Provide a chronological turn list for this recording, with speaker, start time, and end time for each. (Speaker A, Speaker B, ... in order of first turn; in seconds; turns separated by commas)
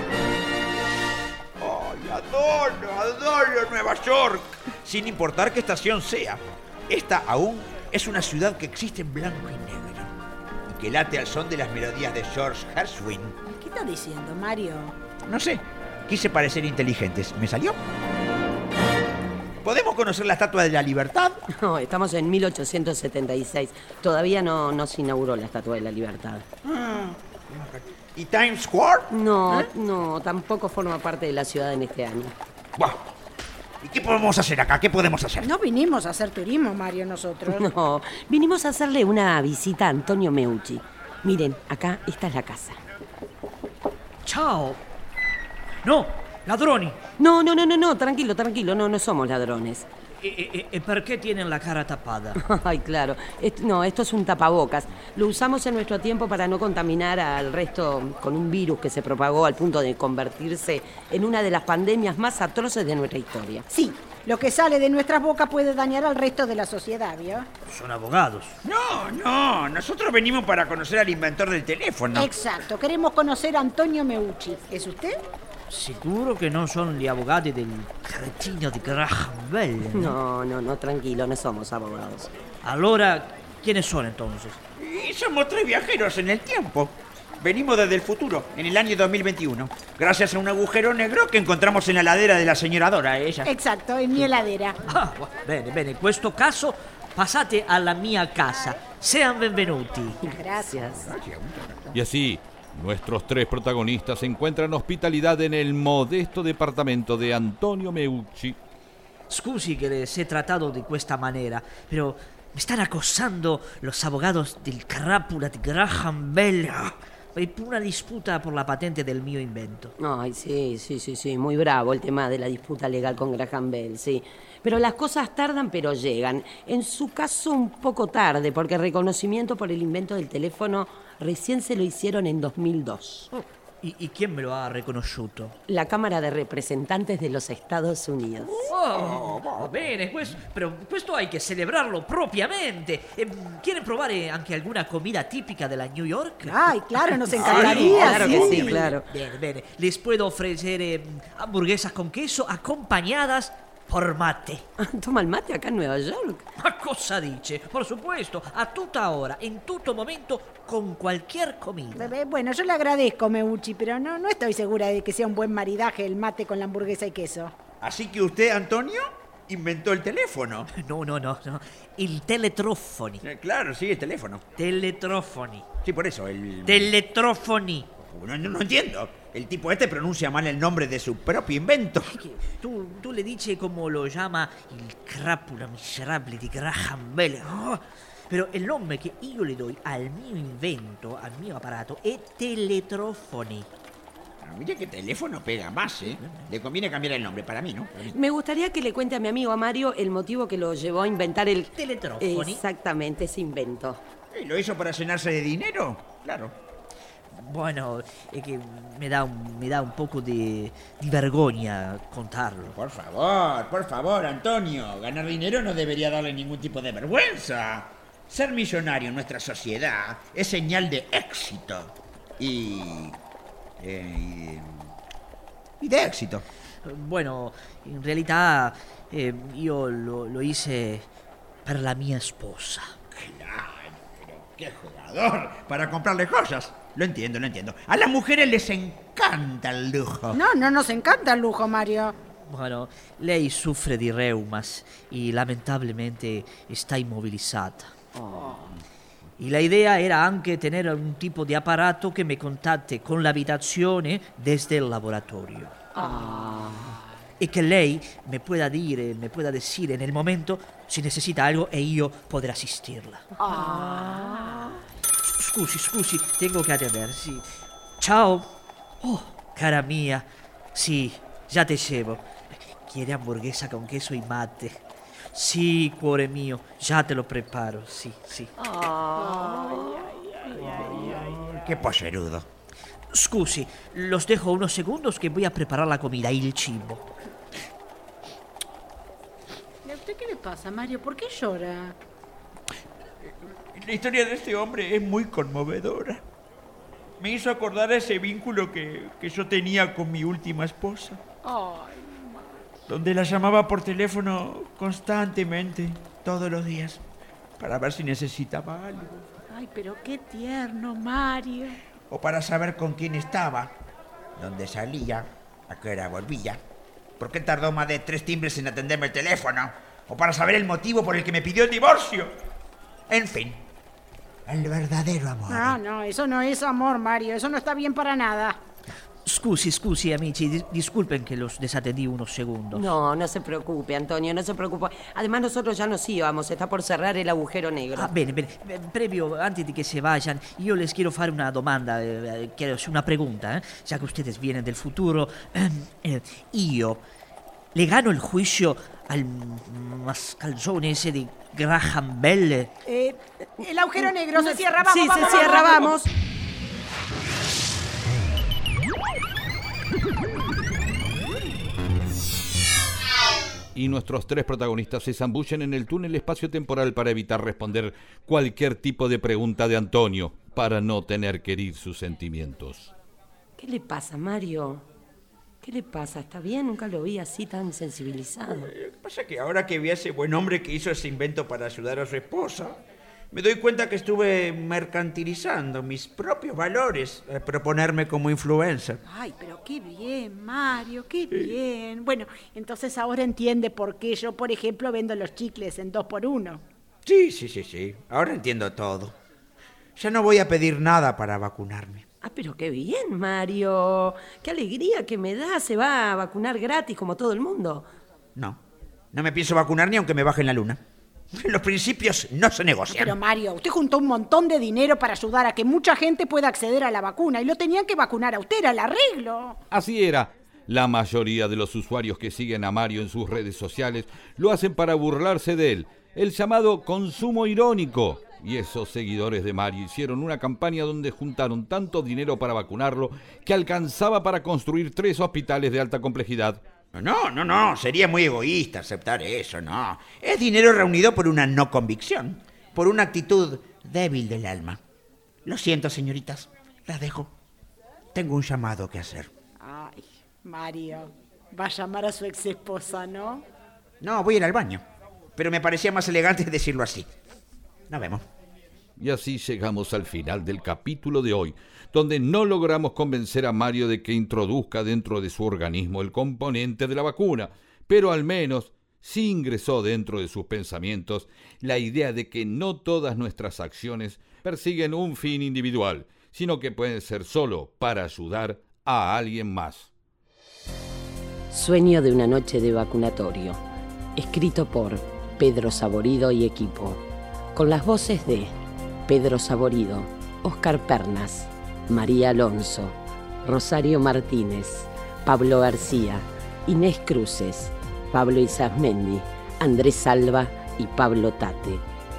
Speaker A: 1.6-10.1, Speaker A: 10.7-13.4, Speaker B: 13.5-15.0, Speaker A: 15.3-17.8, Speaker A: 19.6-21.4, Speaker C: 21.5-26.5, Speaker A: 26.6-29.7, Speaker C: 29.1-32.3, Speaker A: 32.8-33.0, Speaker A: 33.8-35.5, Speaker B: 35.4-37.6, Speaker C: 37.5-42.8, Speaker D: 44.2-44.8, Speaker D: 45.8-47.0, Speaker C: 47.2-49.9, Speaker D: 50.2-52.4, Speaker C: 52.4-63.7, Speaker B: 63.7-67.5, Speaker D: 67.7-68.6, Speaker A: 68.6-72.4, Speaker B: 72.1-75.2, Speaker D: 75.7-80.2, Speaker C: 79.9-82.3, Speaker D: 82.6-84.6, Speaker A: 84.8-93.5, Speaker B: 93.4-94.8, Speaker D: 94.9-100.2, Speaker B: 100.2-101.0, Speaker A: 100.8-102.0, Speaker E: 101.9-108.6, Speaker D: 109.3-119.9, Speaker C: 120.0-133.3, Speaker D: 133.3-135.6, Speaker C: 135.7-138.7, Speaker D: 138.6-154.6, Speaker A: 138.9-139.7, Speaker B: 146.4-148.8, Speaker A: 147.3-149.0, Speaker C: 147.8-149.1, Speaker C: 154.8-156.5, Speaker D: 156.6-162.1, Speaker B: 161.9-167.5, Speaker A: 167.8-170.7, Speaker D: 170.7-173.2, Speaker A: 173.2-174.4, Speaker D: 174.6-175.7, Speaker A: 175.8-176.9, Speaker D: 176.7-177.9, Speaker A: 178.0-182.2, Speaker D: 182.1-193.7, Speaker A: 194.4-198.2, Speaker C: 198.1-204.0, Speaker D: 201.8-202.6, Speaker A: 204.3-206.5, Speaker D: 207.3-212.8, Speaker A: 212.7-223.2, Speaker A: 223.8-224.9, Speaker A: 225.8-226.5, Speaker D: 226.8-231.1, Speaker D: 231.7-233.0, Speaker A: 233.1-240.4, Speaker B: 240.3-242.2, Speaker D: 242.3-247.9, Speaker D: 249.4-255.9, Speaker C: 256.0-256.9, Speaker B: 256.0-256.6, Speaker D: 257.4-263.9, Speaker B: 263.4-264.7, Speaker D: 265.2-267.5, Speaker D: 268.0-268.5, Speaker D: 269.0-278.5, Speaker C: 278.8-279.8, Speaker B: 279.8-281.3, Speaker A: 281.0-282.5, Speaker D: 283.1-287.0, Speaker B: 289.8-292.0, Speaker A: 293.7-296.2, Speaker A: 297.2-301.2, Speaker B: 301.4-302.7, Speaker A: 302.9-307.0, Speaker A: 307.6-309.3, Speaker B: 309.5-311.8, Speaker A: 312.1-313.7, Speaker A: 314.4-316.6, Speaker A: 317.2-322.3, Speaker A: 323.1-323.6, Speaker A: 324.5-325.8, Speaker B: 325.5-328.6, Speaker D: 329.2-332.9, Speaker C: 332.7-338.1, Speaker D: 338.0-347.0, Speaker D: 347.7-352.7, Speaker B: 352.9-356.1, Speaker C: 354.4-356.1, Speaker E: 363.8-372.9, Speaker C: 373.6-374.9, Speaker C: 375.6-378.7, Speaker A: 378.5-382.8, Speaker A: 383.3-389.0, Speaker B: 389.1-396.6, Speaker A: 397.1-399.1, Speaker A: 400.0-402.1, Speaker C: 402.2-407.9, Speaker A: 409.1-410.8, Speaker A: 411.3-413.2, Speaker B: 412.9-419.6, Speaker E: 419.7-436.6, Speaker A: 436.9-444.8, Speaker A: 445.4-447.3, Speaker A: 448.1-449.3, Speaker B: 449.6-453.4, Speaker A: 454.0-454.8, Speaker A: 455.4-457.1, Speaker A: 457.9-458.2, Speaker E: 459.0-479.9, Speaker C: 481.5-483.6, Speaker C: 484.2-487.0, Speaker C: 487.6-488.5, Speaker C: 489.1-501.8